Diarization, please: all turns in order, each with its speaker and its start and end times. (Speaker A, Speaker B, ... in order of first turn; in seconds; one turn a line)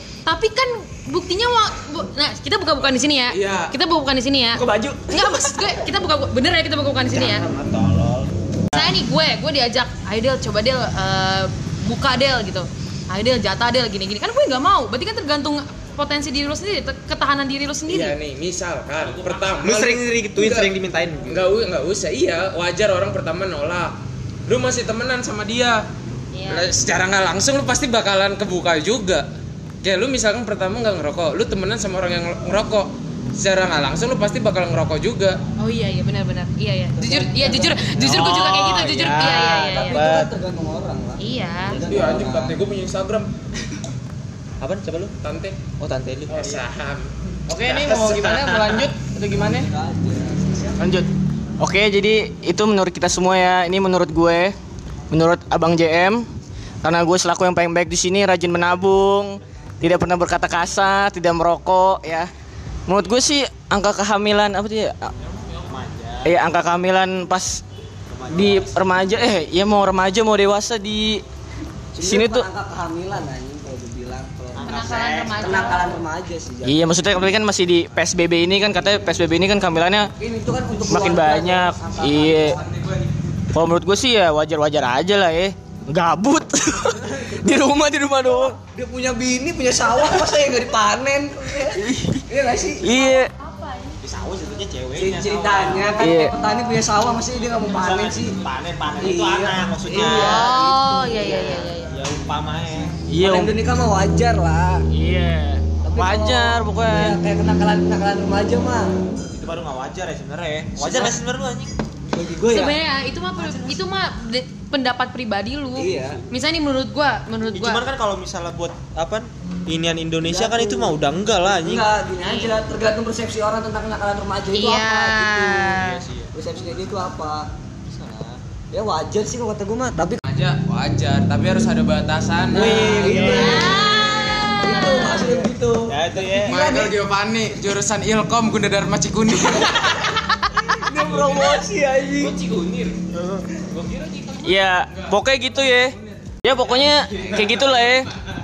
Speaker A: 0.2-7.4
Speaker B: 3.3-3.7
Speaker C: 4.5-5.7
Speaker D: 7.1-8.9
Speaker A: 8.7-18.1
Speaker B: 17.9-20.7
Speaker D: 19.6-21.5
Speaker B: 21.3-23.9
Speaker B: 24.5-25.8
Speaker A: 26.3-26.7
Speaker B: 26.5-29.3
Speaker B: 29.8-35.4
Speaker A: 35.6-40.1
Speaker E: 37.0-38.0
Speaker D: 38.0-40.3
Speaker E: 39.4-42.6
Speaker A: 41.2-41.8
Speaker B: 41.9-43.3
Speaker D: 44.6-45.1
Speaker B: 45.2-45.6
Speaker D: 45.8-46.6
Speaker B: 46.3-47.1
Speaker C: 47.5-49.7
Speaker D: 47.5-48.9
Speaker E: 49.4-50.8
Speaker C: 50.8-51.1
Speaker C: 51.6-54.5
Speaker C: 55.1-56.2
Speaker C: 56.8-62.3
Speaker C: 62.9-65.1
Speaker D: 65.7-66.5
Speaker C: 66.2-67.6
Speaker D: 68.1-68.9
Speaker C: 68.3-71.2
Speaker E: 71.9-76.8
Speaker C: 72.0-72.5
Speaker D: 74.5-75.8
Speaker A: 74.6-75.9
Speaker C: 76.6-80.1
Speaker E: 80.2-82.9
Speaker C: 80.9-82.6
Speaker C: 83.5-88.6
Speaker E: 88.5-92.8
Speaker C: 91.7-92.2
Speaker C: 92.8-93.3
Speaker A: 92.8-94.0
Speaker D: 94.0-96.1
Speaker E: 94.9-98.4
Speaker C: 96.0-96.3
Speaker D: 97.6-100.5
Speaker E: 99.0-101.7
Speaker A: 99.9-102.0
Speaker D: 101.3-103.0
Speaker C: 103.1-103.5
Speaker E: 103.2-104.9
Speaker C: 104.9-107.2
Speaker E: 105.8-108.9
Speaker D: 109.3-111.7
Speaker E: 110.8-111.2
Speaker E: 112.1-112.8
Speaker A: 112.5-117.8
Speaker E: 113.5-113.8
Speaker E: 115.8-116.2
Speaker D: 117.5-121.8
Speaker E: 120.2-125.8
Speaker A: 122.2-122.6
Speaker A: 124.5-126.0
Speaker D: 125.8-126.3
Speaker E: 126.3-127.5
Speaker D: 127.9-128.4
Speaker E: 128.7-130.2
Speaker B: 130.3-133.4
Speaker E: 132.5-136.9
Speaker D: 132.6-133.8
Speaker C: 132.8-133.3
Speaker A: 133.2-135.5
Speaker D: 135.9-136.6
Speaker B: 136.4-140.2
Speaker E: 140.7-142.3
Speaker B: 140.9-141.6
Speaker B: 142.2-142.9
Speaker D: 143.1-143.6
Speaker B: 143.8-148.0
Speaker C: 144.4-148.1